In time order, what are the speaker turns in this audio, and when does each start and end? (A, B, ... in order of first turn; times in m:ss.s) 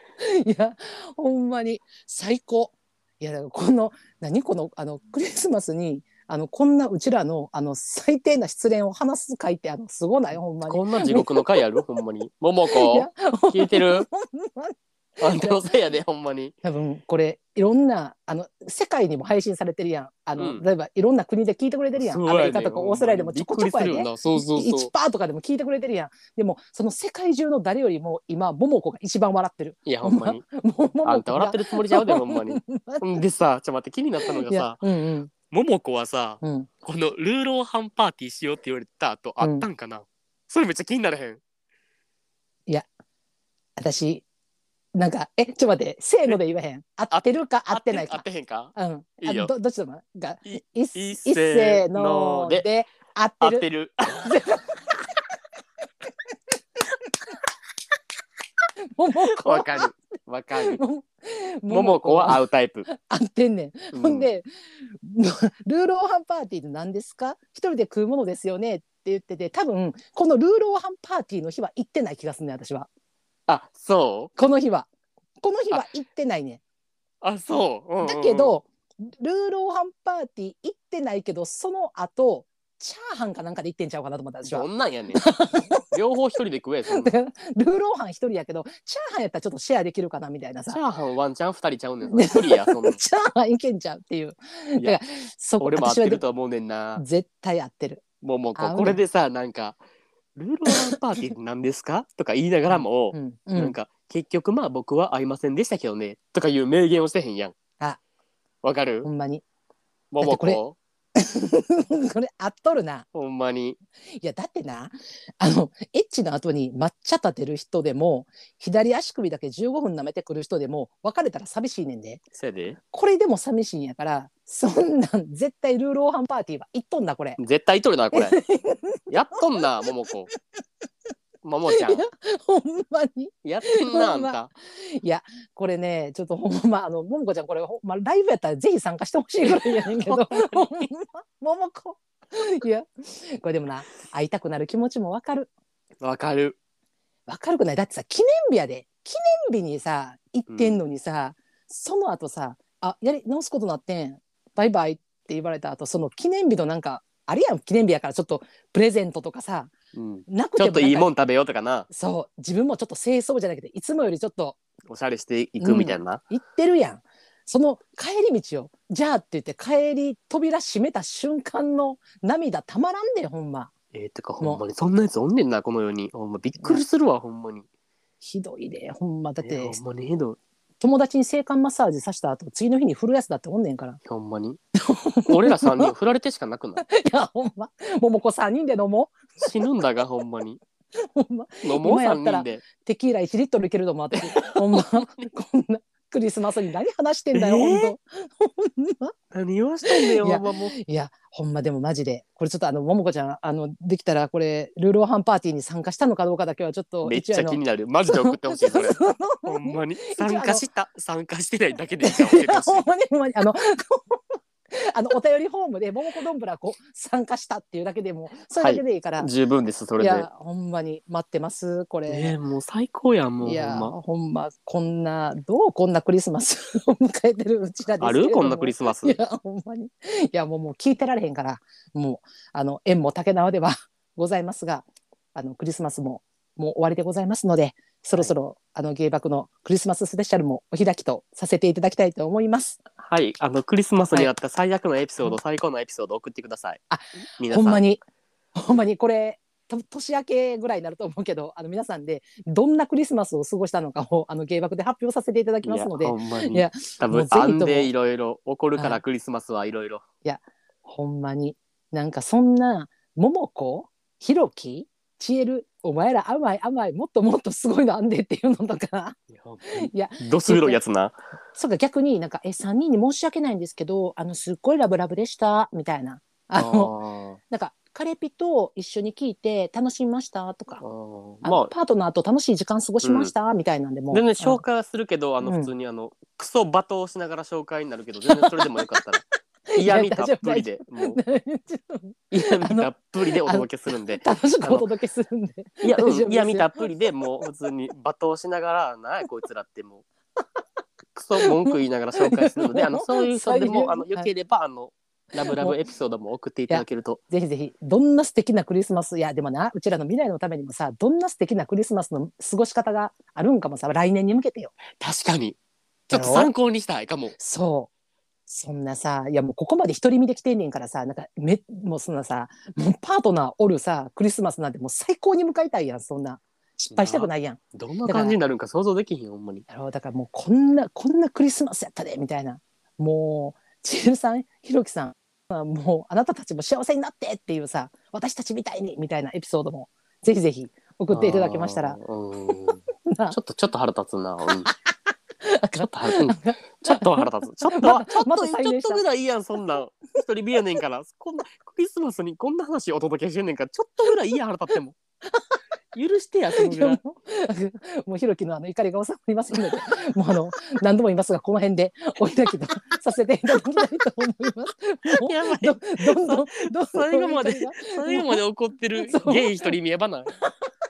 0:00.2-0:11.6 A
0:10.6-0:14.1 B
0:12.7-0:15.7 A
0:15.2-0:16.5 B
0:16.6-0:33.2 A
0:20.4-0:20.6 B
0:21.9-0:24.9 B
0:29.8-0:30.4 B
0:31.0-0:34.8 B
0:34.2-0:35.3 A
0:35.5-0:41.4 B
0:36.4-0:36.7 A
0:39.4-0:39.7 A
0:43.8-0:44.2 A
0:44.9-0:53.7 A
0:47.1-0:49.5 B
0:50.4-0:52.6 B
0:53.4-0:54.3 B
0:54.2-0:54.9 A
0:58.9-0:59.9 A
0:59.3-1:00.8 B
1:00.6-1:04.4 A
1:01.7-1:02.9 B
1:03.9-1:04.3 B
1:05.0-1:12.9 A
1:13.5-1:14.3 B
1:14.4-1:14.9 A
1:15.4-1:16.6 A
1:17.2-1:18.5 B
1:18.0-1:25.9 A
1:24.4-1:25.2 B
1:25.9-1:27.1 B
1:26.9-1:30.8 A
1:30.7-1:33.0 B
1:32.1-1:36.2 A
1:35.6-1:37.0 B
1:37.0-1:38.0 A
1:38.2-1:39.8 B
1:38.6-1:39.0 A
1:40.4-1:47.5 B
1:40.7-1:40.9 A
1:42.7-1:43.8 A
1:48.6-1:49.1 B
1:49.0-1:49.4 A
1:50.1-1:50.8 B
1:50.2-1:50.6 A
1:51.2-1:53.0 A
1:53.1-1:53.8 B
1:54.2-2:02.2 A
2:02.3-2:02.8 B
2:02.9-2:07.4 A
2:07.4-2:08.4 B
2:08.1-2:09.4 A
2:09.1-2:10.3 B
2:11.4-2:12.0 B
2:11.7-2:25.5 A
2:13.4-2:14.5 B
2:19.4-2:20.9 B
2:26.0-2:26.6 B
2:27.3-2:39.7 A
2:30.5-2:30.8 B
2:39.9-2:41.9 B
2:40.3-2:41.1 A
2:41.9-2:44.6 A
2:44.9-2:46.2 B
2:45.6-2:53.7 A
2:53.9-2:57.6 B
2:58.2-2:59.8 A
2:59.4-3:00.4 B
3:00.8-3:04.0 A
3:04.0-3:04.6 B
3:04.8-3:05.9 A
3:05.3-3:06.8 B
3:06.8-3:09.6 A
3:09.4-3:10.6 B
3:10.9-3:19.1 A
3:11.6-3:12.6 B
3:14.2-3:15.3 B
3:17.3-3:18.0 B
3:19.3-3:20.7 B
3:19.8-3:30.6 A
3:27.0-3:32.9 B
3:32.0-3:39.3 A
3:38.6-3:40.3 B
3:40.0-3:42.4 A
3:42.1-3:43.9 B
3:43.4-4:02.8 A
3:48.0-3:49.2 B
4:03.0-4:06.8 B
4:06.9-4:08.0 A
4:07.4-4:07.8 B
4:08.5-4:17.9 A
4:15.6-4:20.0 B
4:18.7-4:19.0 A
4:20.2-4:30.8 A
4:29.3-4:31.2 B
4:31.5-4:36.9 A
4:36.6-4:37.4 B
4:37.5-4:40.8 A
4:40.8-4:41.7 B
4:41.4-4:44.6 A
4:43.0-4:43.3 B
4:44.1-4:49.2 B
4:45.4-4:45.7 A
4:48.2-4:48.8 A
4:49.7-4:56.8 A
4:49.8-4:51.2 B
4:52.3-4:54.9 B
4:55.8-5:00.0 B
5:01.1-5:07.2 B
5:01.4-5:04.3 A
5:05.5-5:05.8 A
5:06.7-5:14.7 A
5:14.9-5:15.6 B
5:16.1-5:17.3 B
5:16.1-5:16.5 A
5:17.4-5:17.9 A
5:18.5-5:28.4 A
5:26.9-5:29.6 B
5:29.7-5:42.0 A
5:41.1-5:44.7 B
5:43.1-5:43.4 A
5:44.6-5:49.0 A
5:45.8-5:55.0 B
5:55.9-5:57.0 B
5:56.5-6:08.4 A
5:59.5-5:59.8 B
6:05.0-6:10.3 B
6:09.0-6:09.7 A
6:10.4-6:10.7 A